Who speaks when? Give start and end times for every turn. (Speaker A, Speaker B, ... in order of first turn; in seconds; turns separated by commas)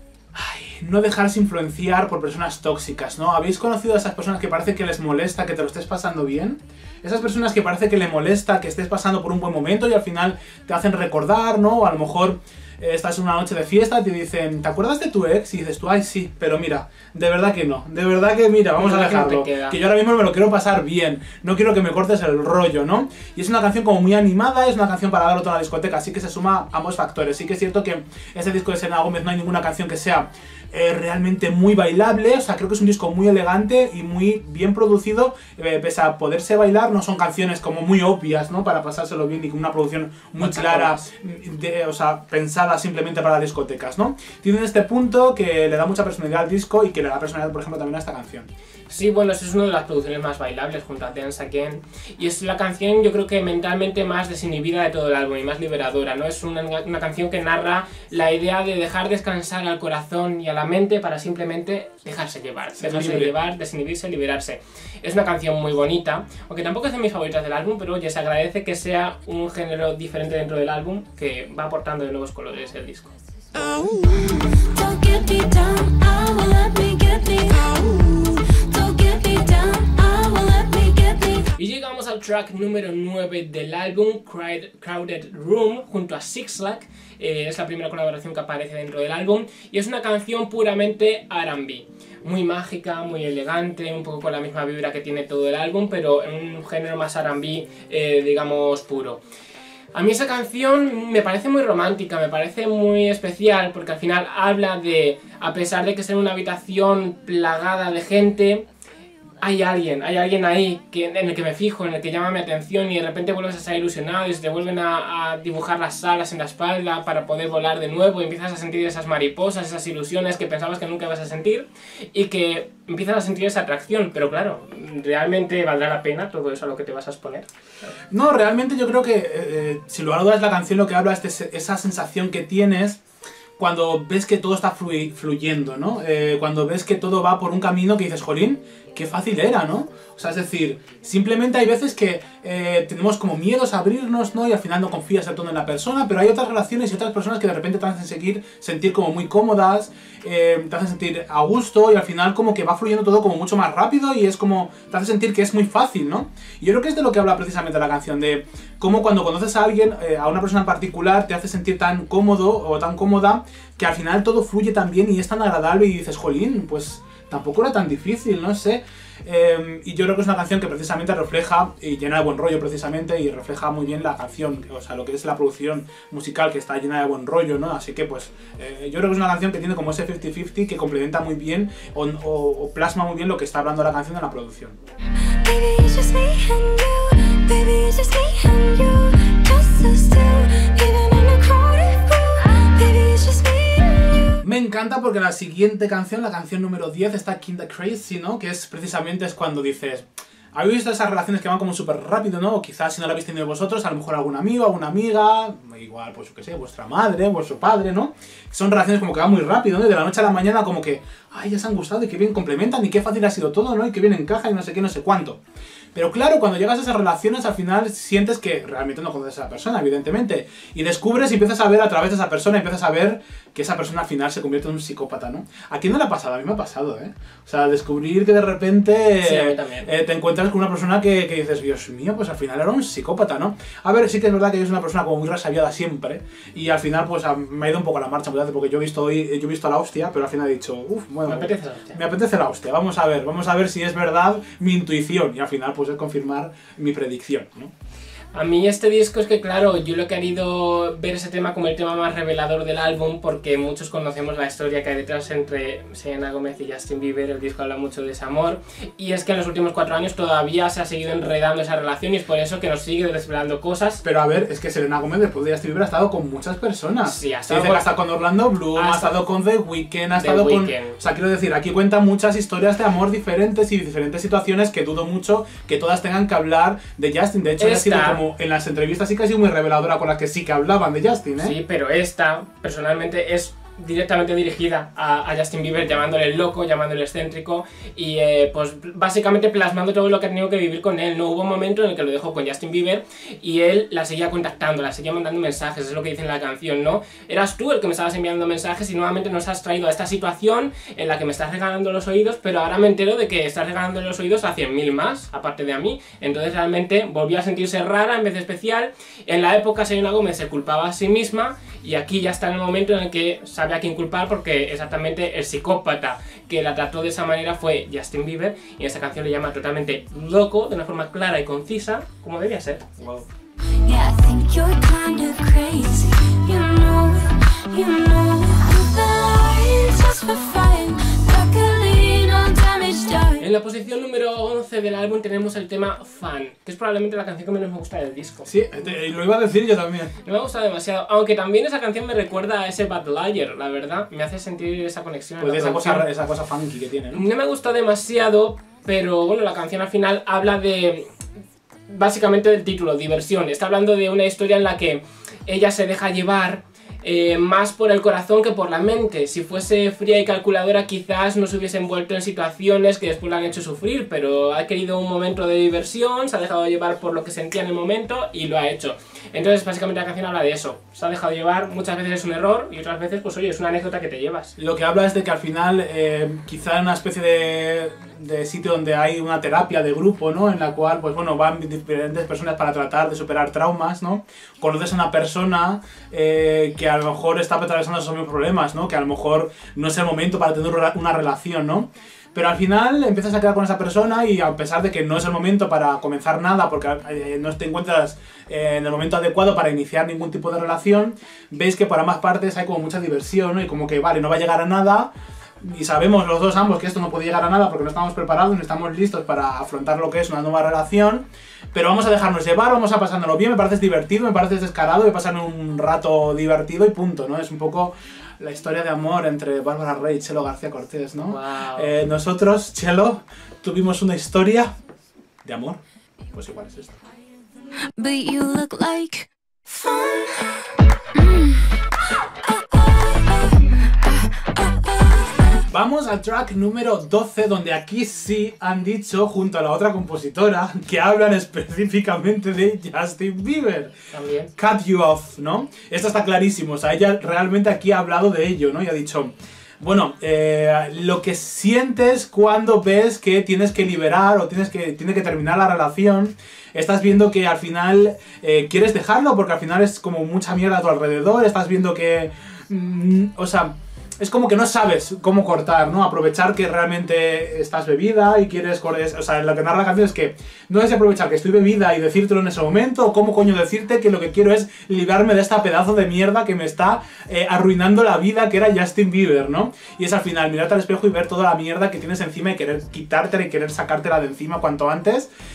Speaker A: 0.3-48.5, Speaker B: 18.8-19.8, Speaker B: 40.4-41.0, Speaker B: 48.9-73.1, Speaker A: 62.8-63.3, Speaker C: 73.5-81.5, Speaker B: 81.6-99.2, Speaker B: 99.9-108.7, Speaker B: 109.4-127.5, Speaker A: 128.1-133.0, Speaker A: 133.6-184.8, Speaker C: 185.2-194.4, Speaker A: 194.4-215.4, Speaker A: 215.9-247.7, Speaker B: 229.2-229.9, Speaker B: 241.3-242.0, Speaker B: 248.3-264.0, Speaker A: 264.0-281.6, Speaker B: 267.0-267.9, Speaker B: 268.7-269.1, Speaker B: 270.1-271.0, Speaker B: 277.6-278.2, Speaker B: 281.4-322.9, Speaker A: 323.0-323.3, Speaker C: 323.8-333.5, Speaker B: 333.4-338.5, Speaker A: 338.4-340.1, Speaker B: 340.2-346.1, Speaker A: 345.4-347.2, Speaker B: 347.1-351.1, Speaker B: 351.9-374.6, Speaker A: 374.6-424.7, Speaker B: 421.3-421.9, Speaker A: 425.4-425.8, Speaker A: 426.3-427.0, Speaker C: 427.8-431.7, Speaker C: 432.4-435.6, Speaker A: 435.7-444.0, Speaker B: 444.1-444.5, Speaker A: 444.6-485.3